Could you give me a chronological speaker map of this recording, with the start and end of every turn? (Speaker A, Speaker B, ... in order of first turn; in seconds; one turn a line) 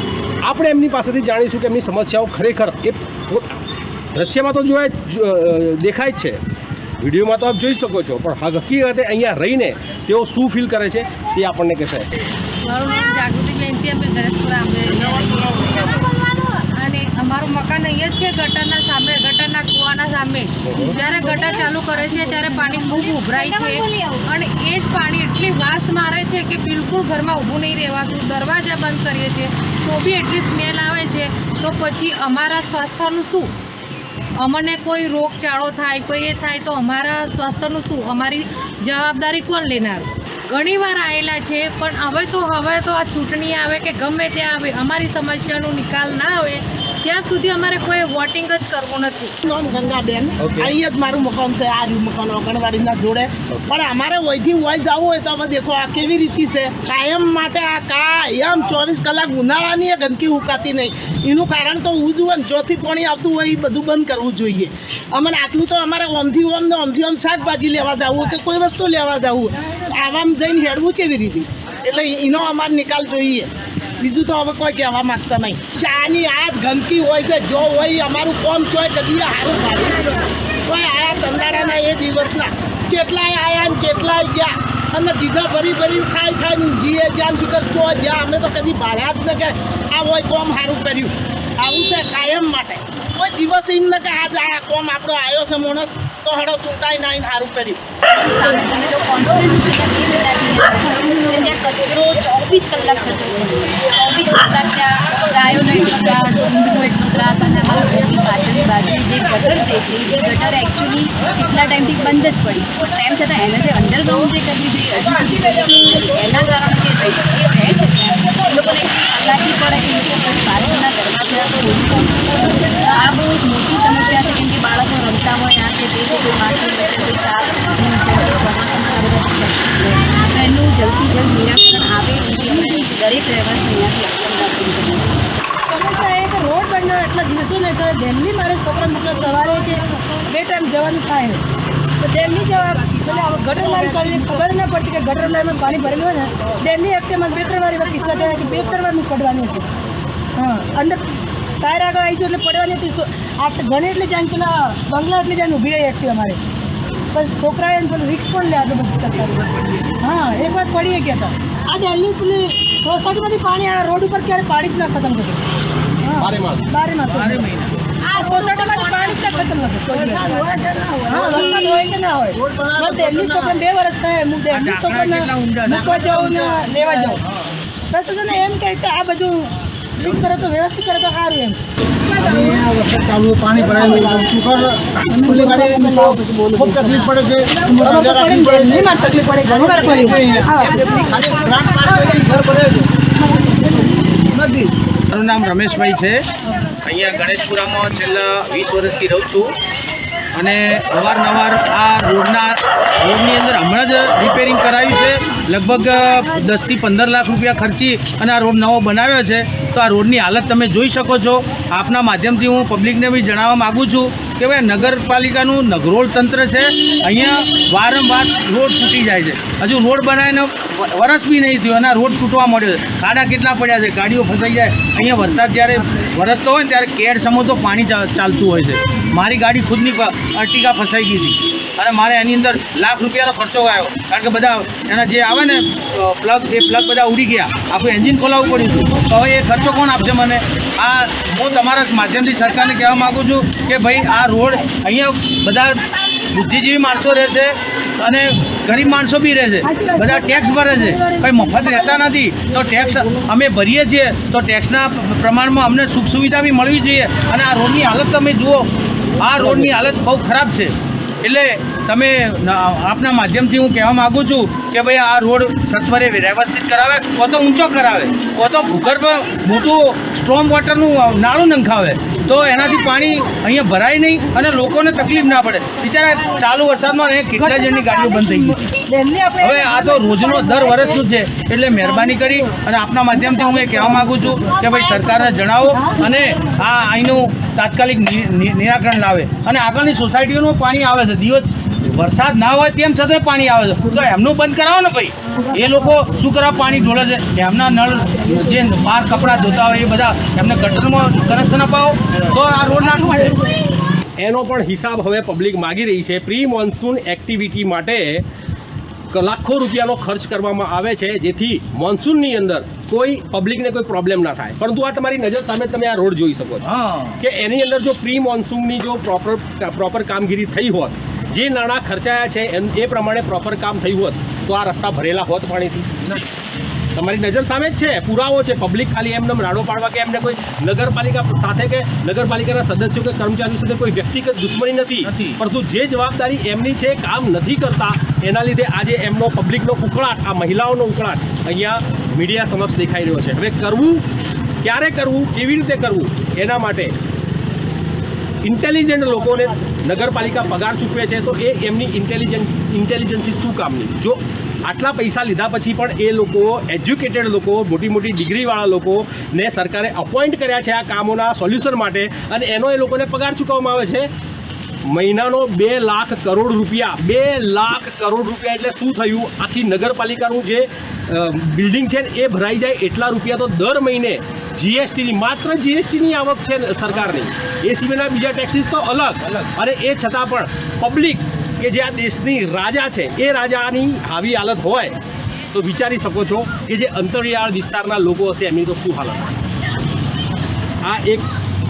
Speaker A: 0.4-3.6
Speaker A: 4.1-6.4
Speaker A: 7.0-12.3
Speaker B: 12.7-33.5
Speaker A: 20.6-20.9
Speaker B: 34.4-49.4
Speaker C: 49.5-97.8
Speaker D: 98.2-135.2
Speaker E: 135.7-141.4
Speaker E: 142.0-149.7
Speaker E: 150.4-151.0
Speaker E: 151.6-156.4
Speaker E: 157.1-165.4
Speaker E: 166.0-167.5
Speaker A: 166.2-166.6
Speaker F: 167.1-167.8
Speaker E: 168.1-177.2
Speaker F: 172.6-173.5
Speaker F: 174.5-177.5
Speaker E: 177.9-179.4
Speaker E: 180.0-182.7
Speaker C: 182.7-183.4
Speaker F: 183.5-184.0
Speaker E: 183.6-184.2
Speaker C: 184.1-184.6
Speaker E: 185.1-191.1
Speaker C: 185.1-189.4
Speaker C: 189.9-190.6
Speaker B: 190.6-192.3
Speaker C: 191.6-192.4
Speaker E: 191.8-192.1
Speaker F: 192.4-192.8
Speaker F: 194.4-196.2
Speaker F: 196.8-199.5
Speaker F: 200.3-245.8
Speaker F: 246.3-258.7
Speaker E: 249.7-251.8
Speaker F: 259.2-278.6
Speaker E: 277.4-281.0
Speaker F: 279.4-303.4
Speaker A: 304.2-308.2
Speaker A: 309.1-316.7
Speaker F: 316.6-317.2
Speaker A: 317.2-326.1
Speaker A: 326.9-344.1
Speaker F: 335.0-335.4
Speaker A: 344.6-346.9
Speaker A: 348.4-364.1
Speaker A: 364.9-385.0
Speaker A: 385.5-389.4
Speaker A: 390.8-391.3